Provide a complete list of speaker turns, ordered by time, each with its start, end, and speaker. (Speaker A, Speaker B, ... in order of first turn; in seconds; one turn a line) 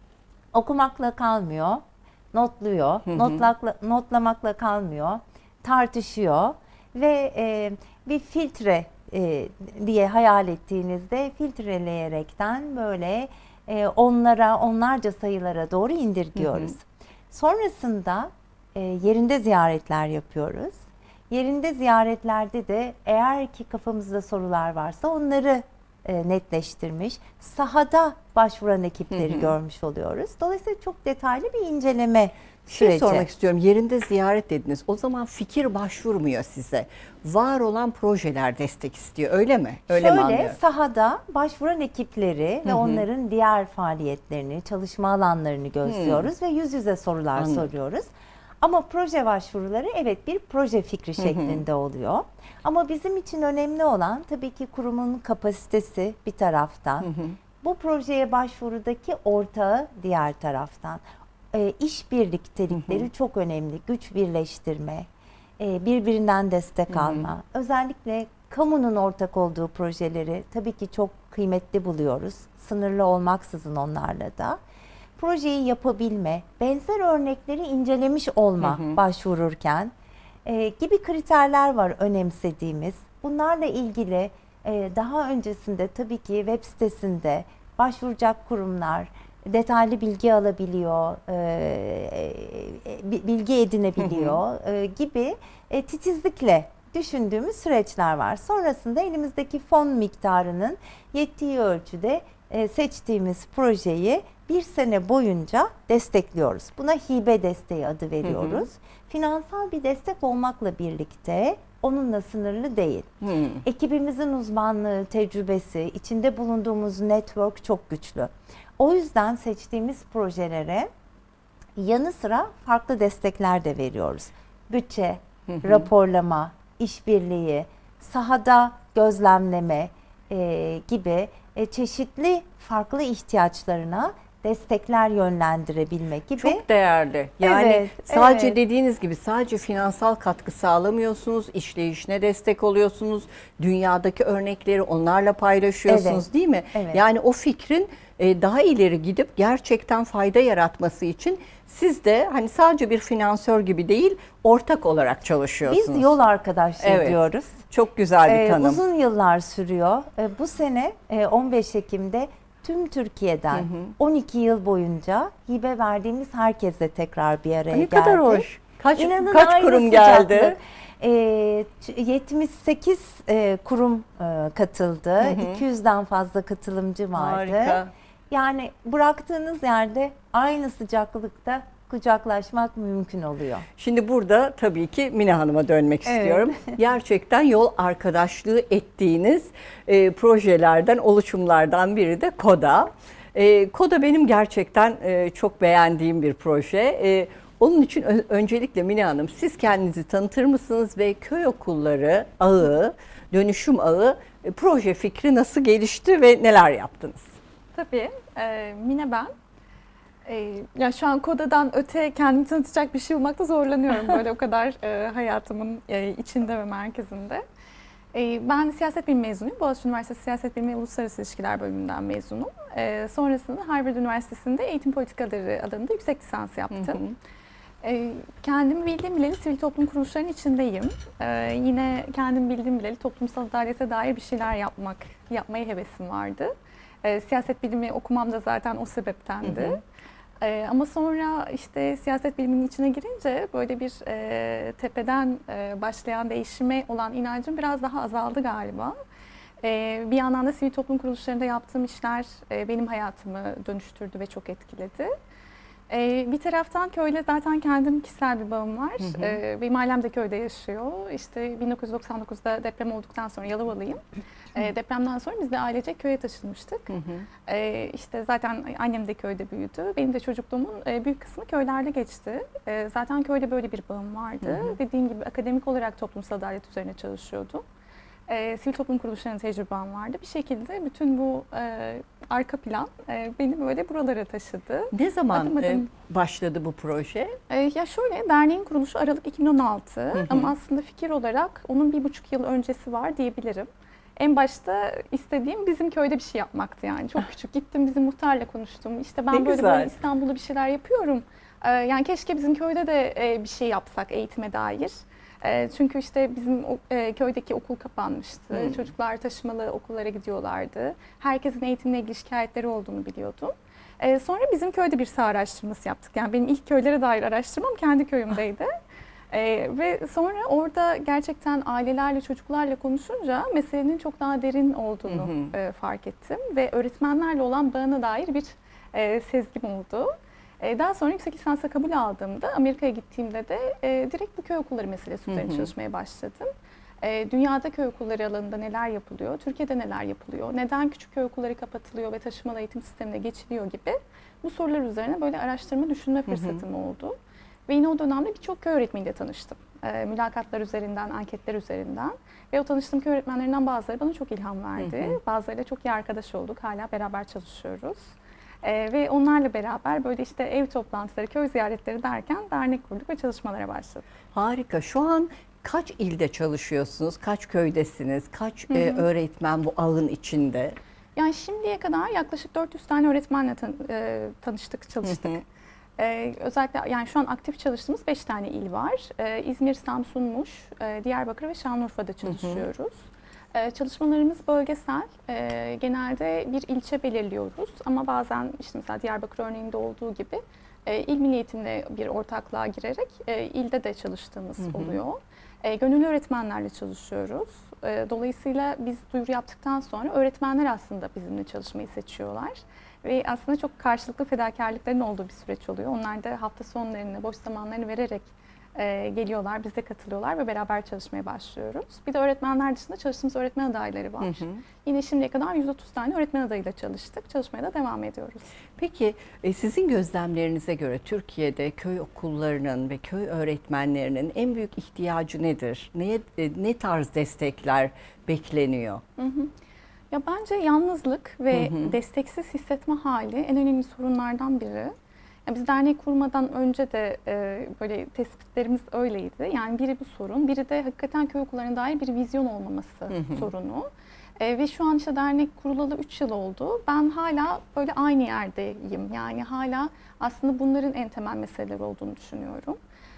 Speaker A: 0.5-33.3
Speaker B: 3.1-3.4
Speaker B: 16.4-16.7
Speaker B: 29.1-29.5
Speaker B: 32.7-40.6
Speaker A: 39.9-57.1
Speaker B: 42.7-43.0
Speaker B: 45.9-46.3
Speaker B: 47.4-47.7
Speaker B: 51.2-51.6
Speaker B: 57.0-57.4
Speaker A: 57.6-65.1
Speaker A: 65.6-74.6
Speaker B: 66.9-67.3
Speaker A: 75.2-79.9
Speaker B: 78.6-79.0
Speaker A: 80.5-113.1
Speaker B: 94.0-94.4
Speaker B: 108.2-108.7
Speaker B: 113.2-113.6
Speaker A: 113.6-120.9
Speaker A: 121.8-136.6
Speaker B: 125.5-125.9
Speaker B: 136.4-156.1
Speaker A: 137.4-138.6
Speaker A: 145.9-147.0
Speaker A: 155.7-157.6
Speaker B: 156.8-157.2
Speaker B: 157.7-158.8
Speaker A: 158.3-183.7
Speaker B: 163.5-163.9
Speaker B: 167.7-170.6
Speaker B: 175.2-175.6
Speaker B: 177.2-177.9
Speaker B: 183.8-207.3
Speaker A: 186.1-186.7
Speaker C: 207.8-209.3
Speaker C: 210.3-217.4
Speaker C: 218.1-227.0
Speaker B: 226.7-227.2
Speaker C: 227.8-236.5
Speaker C: 237.0-239.8
Speaker B: 239.4-239.8
Speaker C: 240.4-249.0
Speaker C: 249.6-255.1
Speaker C: 255.9-264.0
Speaker B: 259.0-259.4
Speaker C: 264.6-266.9
Speaker B: 266.9-267.3
Speaker C: 267.5-277.6
Speaker B: 274.4-274.8
Speaker C: 278.3-285.9
Speaker B: 284.9-287.4
Speaker C: 287.5-318.7
Speaker B: 290.1-290.5
Speaker B: 299.3-299.9
Speaker B: 308.5-308.9
Speaker C: 319.3-336.5
Speaker B: 325.1-325.5
Speaker B: 335.3-335.7
Speaker C: 337.0-347.2
Speaker B: 346.3-346.6
Speaker C: 347.7-358.1
Speaker B: 354.8-355.2
Speaker C: 358.6-364.0
Speaker B: 364.3-370.8
Speaker C: 368.7-369.1
Speaker C: 371.2-375.4
Speaker B: 375.0-375.4
Speaker C: 376.0-418.5
Speaker B: 382.3-382.6
Speaker B: 394.6-395.0
Speaker B: 414.2-414.6
Speaker B: 418.8-429.0
Speaker C: 429.2-429.5
Speaker C: 430.1-434.9
Speaker B: 431.5-431.9
Speaker C: 435.5-452.8
Speaker B: 443.1-443.5